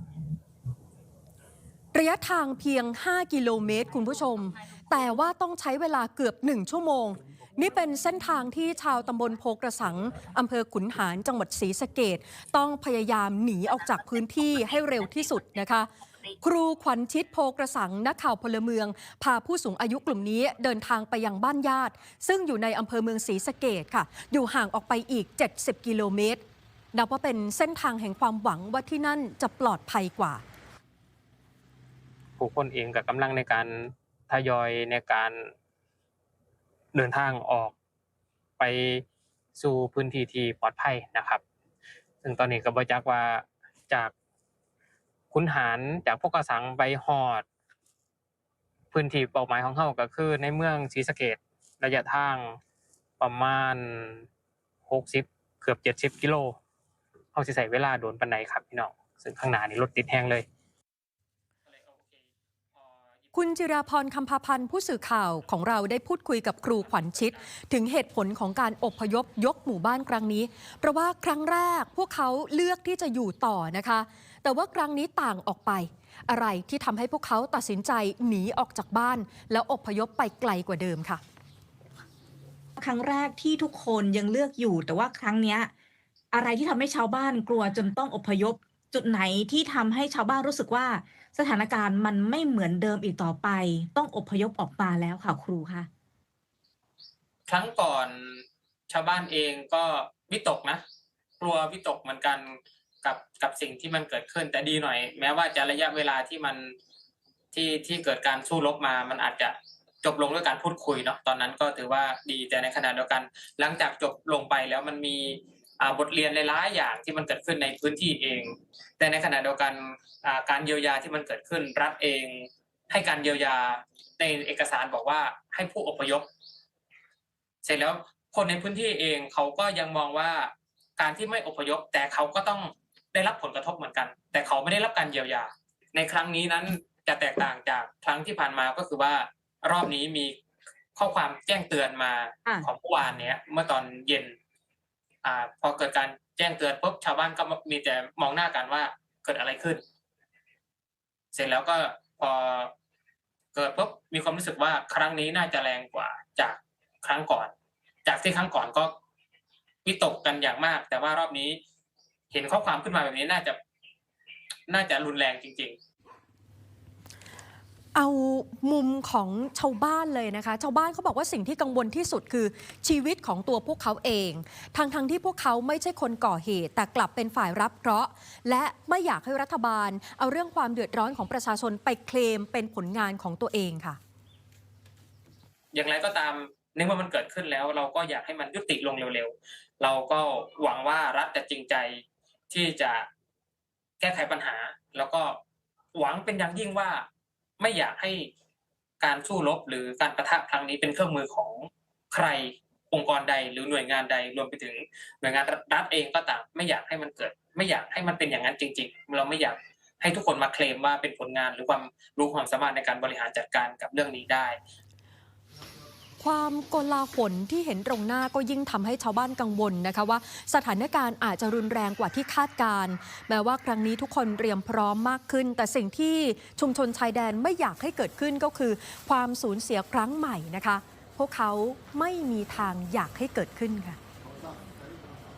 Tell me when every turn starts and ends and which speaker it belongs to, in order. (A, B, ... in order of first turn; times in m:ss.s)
0:01.9-0:15.9 A
0:16.4-0:26.4 A
0:26.9-0:30.4 A
0:32.4-0:35.5 B
0:36.9-0:37.7 B
0:38.6-0:39.0 B
0:39.6-0:41.4 B
0:42.2-0:44.1 B
0:45.3-0:47.5 B
0:48.9-0:52.6 B
0:53.2-0:54.2 B
0:54.9-0:56.6 B
0:57.3-1:00.5 B
1:01.7-1:03.3 B
1:03.3-1:21.2 A
1:06.8-1:07.4 B
1:22.8-1:25.7 C
1:26.3-1:35.9 C
1:37.5-1:40.8 B
1:41.4-1:46.8 B
1:47.5-2:06.3 B
2:07.6-2:20.4 B
2:21.0-2:24.4 B
2:25.2-2:29.8 B
2:31.3-2:32.7 B
2:33.5-2:37.5 B
2:38.0-2:38.9 B
2:39.8-2:41.6 B
2:42.3-2:43.6 B
2:44.7-2:45.8 B
2:48.0-3:04.0 A
3:05.7-3:13.1 B
3:14.0-3:15.4 B
3:16.0-3:17.1 B
3:17.6-3:18.3 B
3:19.0-3:34.6 B
3:36.2-3:54.0 A